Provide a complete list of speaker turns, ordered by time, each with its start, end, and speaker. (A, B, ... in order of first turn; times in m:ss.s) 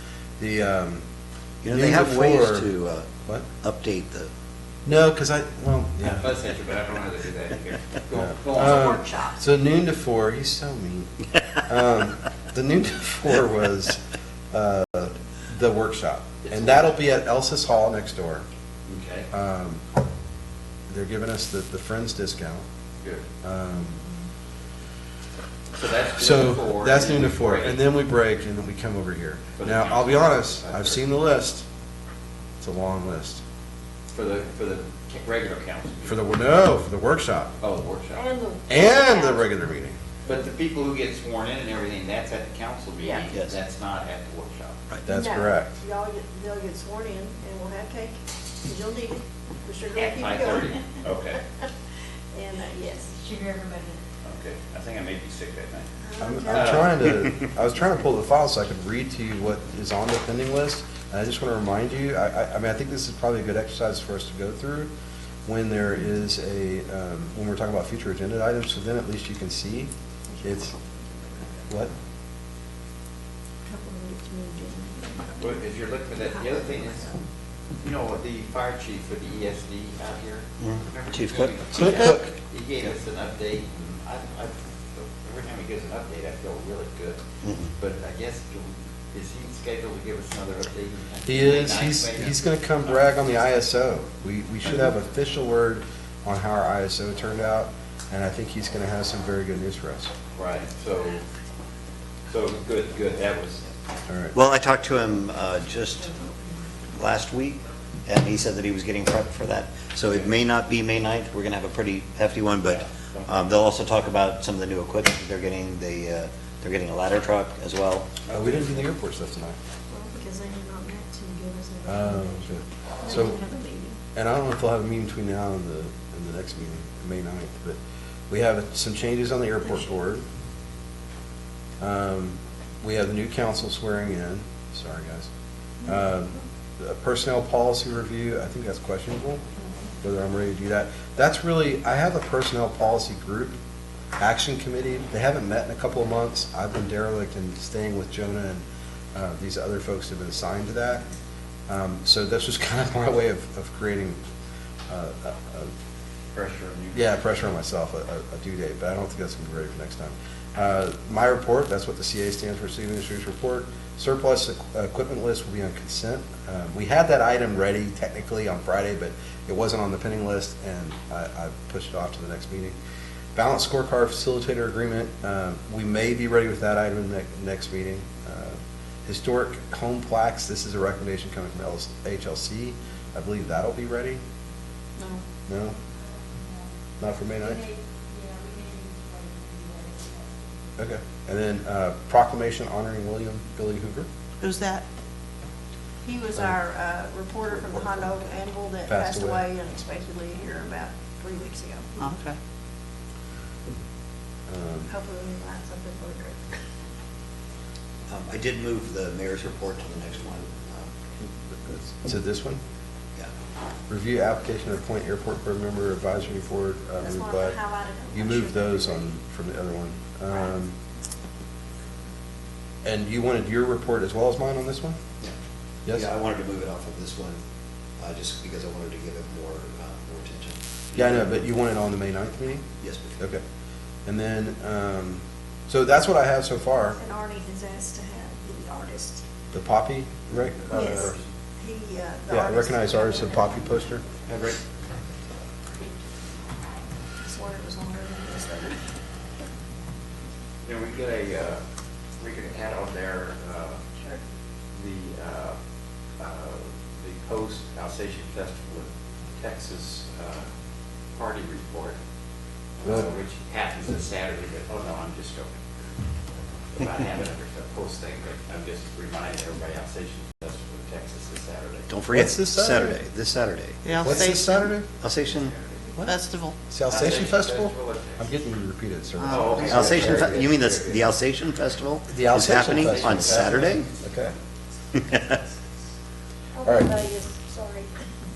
0:00.4-0:01.0 A
0:01.6-0:04.3 B
0:01.7-0:02.7 A
0:04.8-0:06.3 A
0:06.2-0:08.9 C
0:08.1-0:18.4 A
0:08.5-0:09.4 D
0:16.4-0:16.8 C
0:18.9-0:19.3 C
0:19.3-0:19.8 A
0:20.9-0:22.6 A
0:23.4-0:24.0 A
0:25.7-0:27.8 C
0:26.2-0:31.6 A
0:29.6-0:31.0 C
0:32.6-0:33.4 A
0:34.1-0:36.3 C
0:36.0-0:37.5 A
0:37.6-0:38.2 C
0:38.1-0:39.4 D
0:38.7-0:40.0 A
0:40.2-0:44.8 C
0:43.0-0:43.2 D
0:45.0-0:45.7 A
0:45.0-0:50.8 D
0:49.9-0:51.4 C
0:52.3-0:53.2 D
0:53.2-0:54.0 E
0:54.2-0:55.9 C
0:56.0-0:56.8 D
0:56.2-1:04.9 A
0:56.5-0:57.2 C
1:05.4-1:09.9 A
1:10.3-1:11.7 D
1:10.4-1:10.7 A
1:13.6-1:17.1 D
1:15.4-1:17.1 C
1:17.8-1:27.2 C
1:20.6-1:22.2 B
1:21.7-1:22.3 A
1:27.4-1:27.7 B
1:27.8-1:33.0 C
1:31.2-1:40.1 A
1:40.3-1:41.2 C
1:42.3-1:43.6 C
1:44.1-1:44.3 A
1:44.3-1:46.1 B
1:46.9-1:58.1 B
1:50.0-1:50.3 C
1:52.6-1:53.5 C
1:58.2-1:58.9 C
1:58.3-1:59.6 A
1:59.9-2:04.0 D
2:01.8-2:03.4 A
2:04.1-2:07.8 A
2:08.3-2:10.2 A
2:11.8-2:15.3 A
2:15.8-2:19.4 A
2:20.0-2:23.6 A
2:24.2-2:28.6 A
2:29.1-2:31.0 A
2:31.7-2:34.2 A
2:34.9-2:35.7 A
2:36.3-2:37.2 C
2:36.9-2:52.8 A
2:53.3-3:04.2 A
3:05.0-3:05.2 D
3:05.5-3:05.7 A
3:07.0-3:07.7 A
3:07.5-3:10.5 E
3:10.8-3:14.1 A
3:14.4-3:14.8 F
3:16.0-3:21.9 D
3:17.6-3:18.0 C
3:18.9-3:19.4 A
3:22.0-3:22.3 F
3:24.5-3:24.9 A
3:24.9-3:26.5 D
3:28.1-3:31.2 B
3:31.9-3:32.6 A
3:33.9-3:37.6 A
3:37.0-3:39.1 D
3:38.1-3:40.7 A
3:42.8-3:45.0 A
3:45.9-3:47.4 B
3:48.0-3:51.3 B
3:50.9-3:53.4 A
3:52.8-3:53.2 B
3:54.0-3:57.0 A
3:56.9-3:59.2 D
3:59.5-4:01.2 A
4:00.7-4:03.5 D
4:02.3-4:04.0 A
4:04.2-4:04.6 C
4:07.2-4:08.8 D
4:10.6-4:11.6 C
4:12.2-4:13.8 C
4:14.7-4:15.6 C
4:16.2-4:20.5 C
4:21.1-4:22.0 C
4:22.8-4:25.5 C
4:26.7-4:31.9 C
4:31.9-4:34.4 B
4:32.1-4:33.0 A
4:33.8-4:34.6 F
4:34.0-4:34.9 A
4:35.0-4:35.5 B
4:35.3-4:36.0 C
4:36.0-4:36.5 F
4:36.7-4:40.4 A
4:36.9-4:38.3 C
4:39.2-4:41.1 C
4:39.2-4:39.6 F
4:39.6-4:43.9 B
4:42.1-4:44.3 A
4:42.5-4:43.9 C
4:45.0-4:45.2 B
4:46.6-4:47.9 D
4:46.6-4:46.9 A